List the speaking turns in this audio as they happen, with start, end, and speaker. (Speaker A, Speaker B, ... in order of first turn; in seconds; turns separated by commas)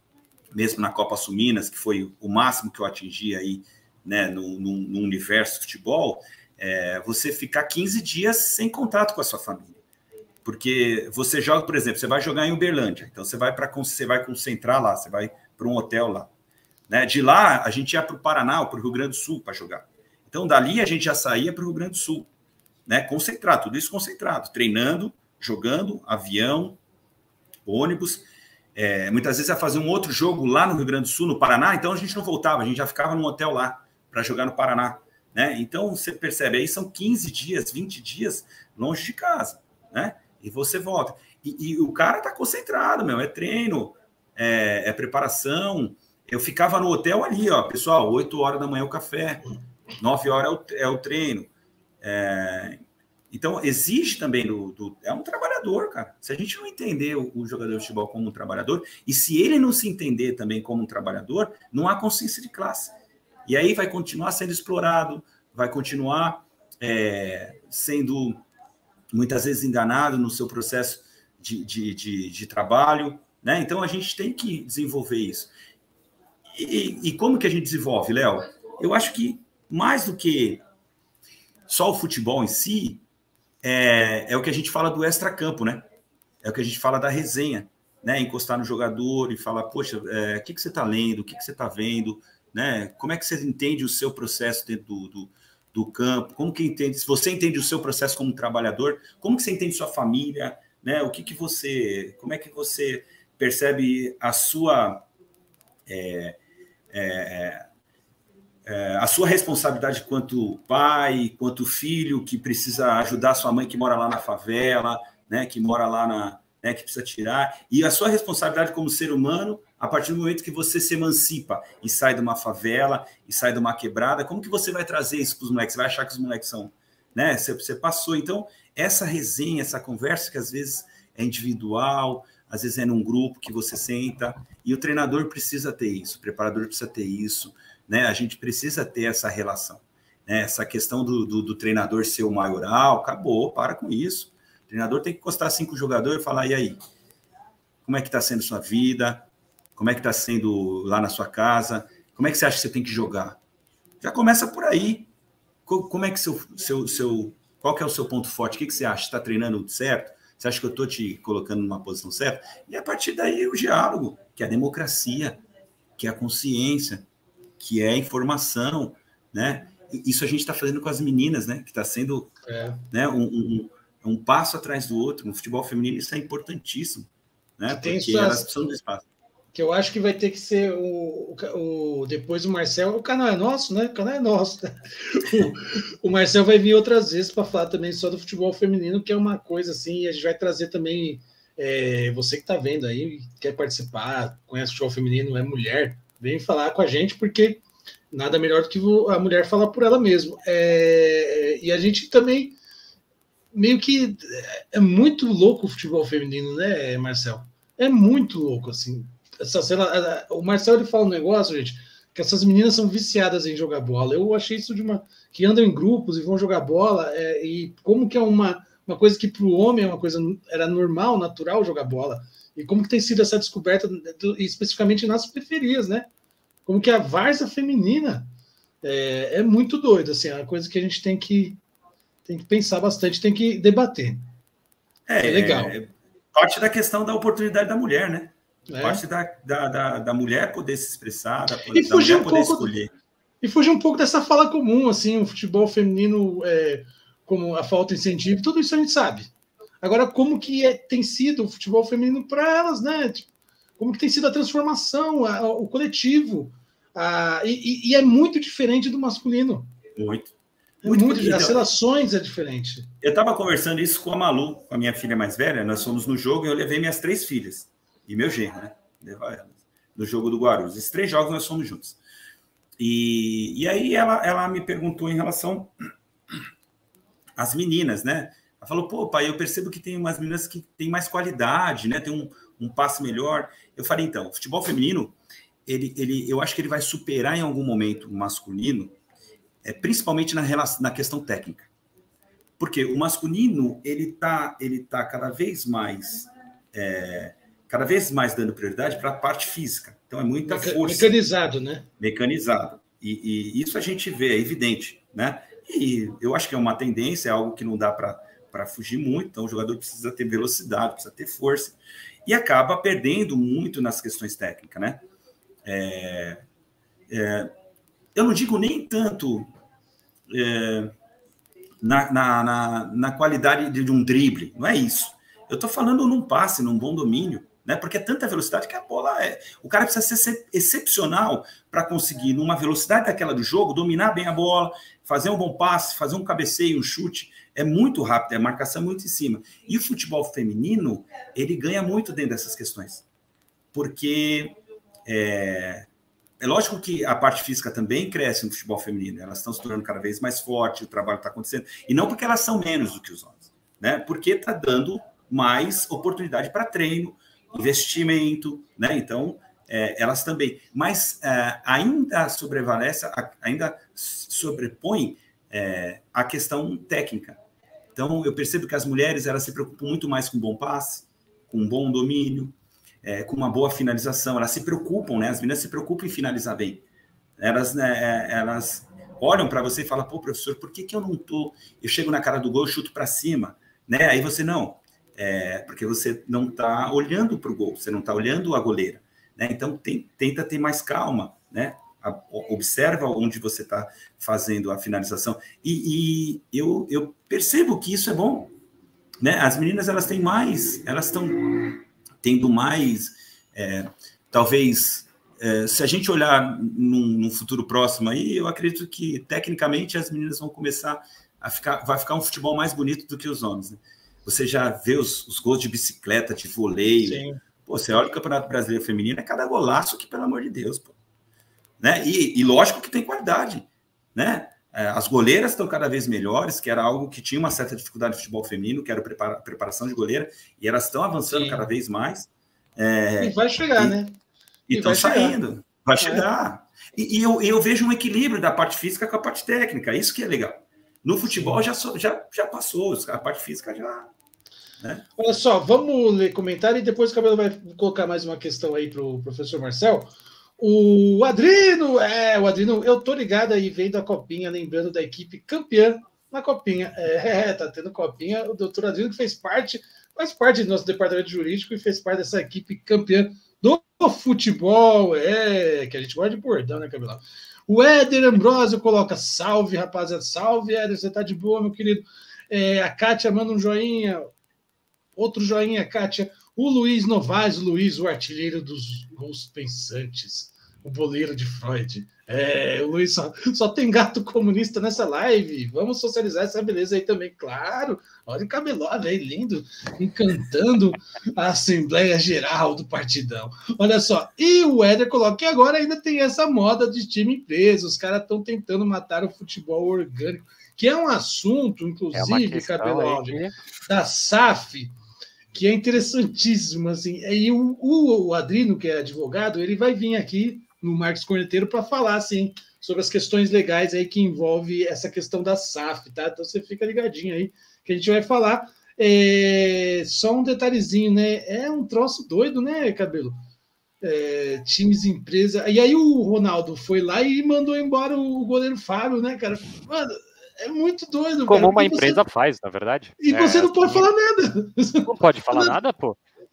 Speaker A: 0.5-9.8, Speaker A: 10.4-16.3, Speaker A: 16.9-22.3, Speaker A: 22.9-26.8, Speaker A: 27.6-28.2, Speaker A: 28.7-51.5, Speaker A: 52.0-68.4, Speaker A: 69.1-75.5, Speaker A: 76.5-80.6, Speaker A: 81.7-83.0, Speaker A: 83.6-85.8, Speaker A: 86.4-105.0, Speaker A: 105.8-106.4, Speaker A: 106.9-107.6, Speaker A: 108.6-146.8, Speaker A: 147.8-153.4, Speaker A: 154.0-155.1, Speaker A: 155.7-165.4, Speaker A: 166.0-167.1, Speaker A: 167.6-172.3, Speaker B: 172.4-172.8, Speaker A: 172.9-179.0, Speaker B: 177.7-178.5, Speaker B: 179.5-202.6, Speaker B: 203.5-226.1, Speaker B: 226.7-228.3, Speaker B: 228.8-231.6, Speaker B: 232.2-234.2, Speaker A: 235.1-242.9, Speaker B: 235.2-235.8, Speaker B: 238.7-239.0, Speaker B: 241.7-242.7, Speaker B: 243.4-249.3, Speaker B: 249.8-253.3, Speaker B: 253.8-259.7, Speaker A: 259.9-260.3, Speaker B: 260.8-262.9, Speaker A: 260.8-261.6, Speaker A: 263.0-272.0, Speaker A: 272.8-275.7, Speaker A: 277.4-288.9, Speaker A: 289.6-291.7, Speaker A: 292.6-301.1, Speaker B: 300.4-301.9, Speaker A: 302.0-315.0, Speaker A: 315.6-316.4, Speaker A: 317.1-317.5, Speaker A: 318.1-319.5, Speaker A: 320.3-320.9, Speaker A: 321.8-343.1, Speaker A: 343.7-345.9, Speaker A: 346.4-367.4, Speaker A: 367.9-376.8, Speaker A: 377.4-398.5, Speaker A: 399.2-420.9, Speaker B: 417.0-417.4, Speaker A: 421.8-434.0, Speaker B: 431.3-431.6, Speaker B: 433.2-434.2, Speaker A: 434.7-444.1, Speaker B: 434.7-435.4, Speaker B: 436.0-436.2, Speaker B: 441.2-441.6, Speaker A: 444.8-445.1, Speaker B: 445.2-474.3, Speaker B: 475.1-504.9, Speaker C: 502.1-503.5, Speaker B: 505.5-523.4, Speaker B: 524.0-532.2, Speaker C: 531.5-534.1, Speaker B: 533.2-535.8, Speaker C: 535.0-536.2